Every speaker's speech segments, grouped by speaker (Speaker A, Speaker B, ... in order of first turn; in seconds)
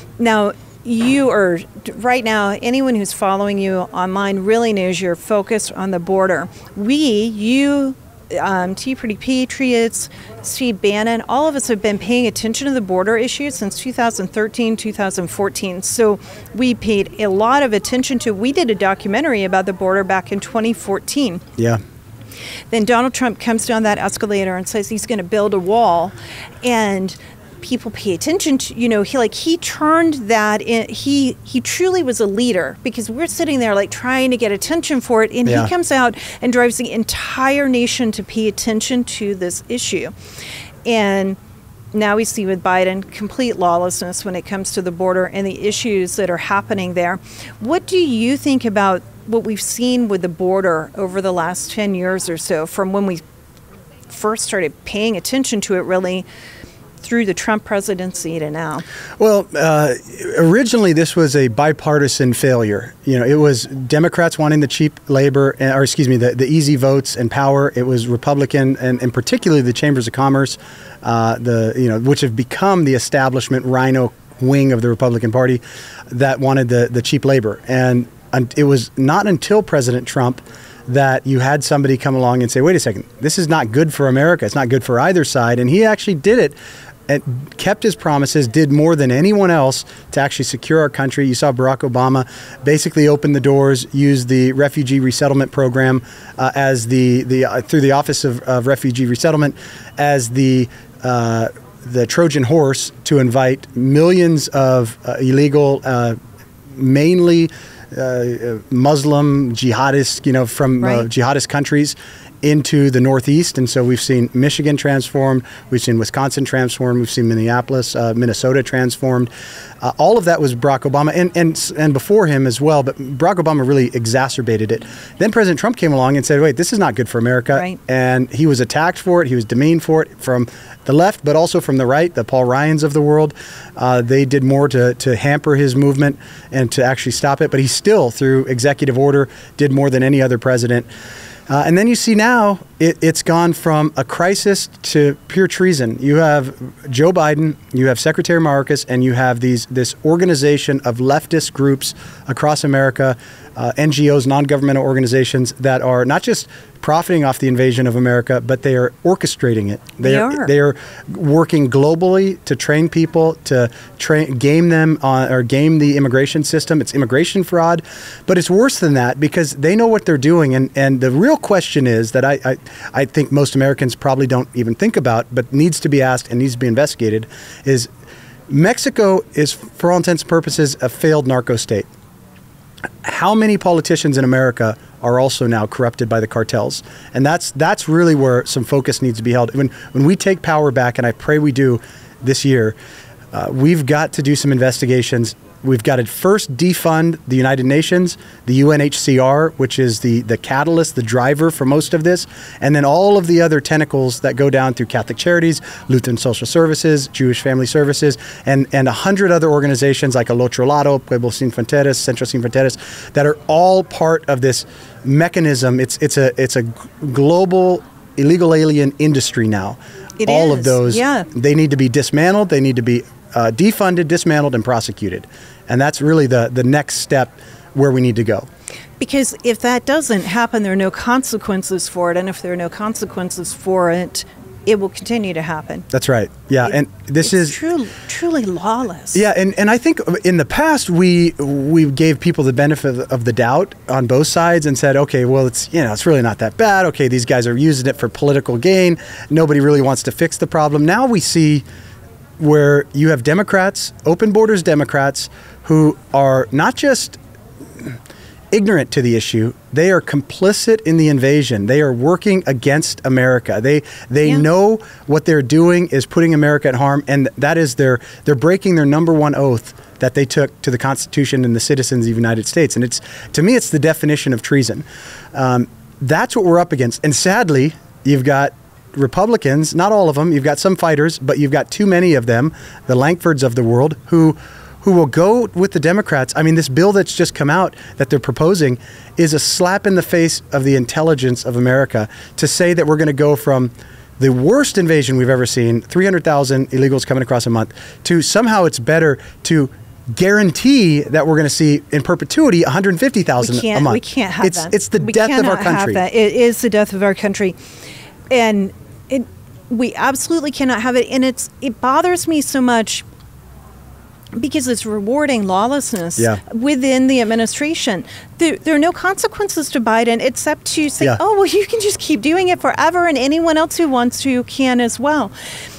Speaker A: 0.2-21.4, 22.7-40.1, 40.9-41.4, 41.9-53.2, 54.1-56.3, 57.0-58.8, 110.8-111.0, 127.5-127.8, 160.0-160.5, 220.2-221.3, 229.0-235.9, 236.6-239.2, 303.4-307.6, 308.3-313.1, 314.3-325.3
Speaker B: 35.5-35.7, 59.2-86.6, 87.1-106.2, 106.8-119.3, 119.8-140.9, 141.5-177.9, 178.5-181.9, 183.0-192.8, 193.3-228.5, 235.9-237.6, 239.1-251.6, 252.4-257.2, 258.5-274.8, 275.4-306.0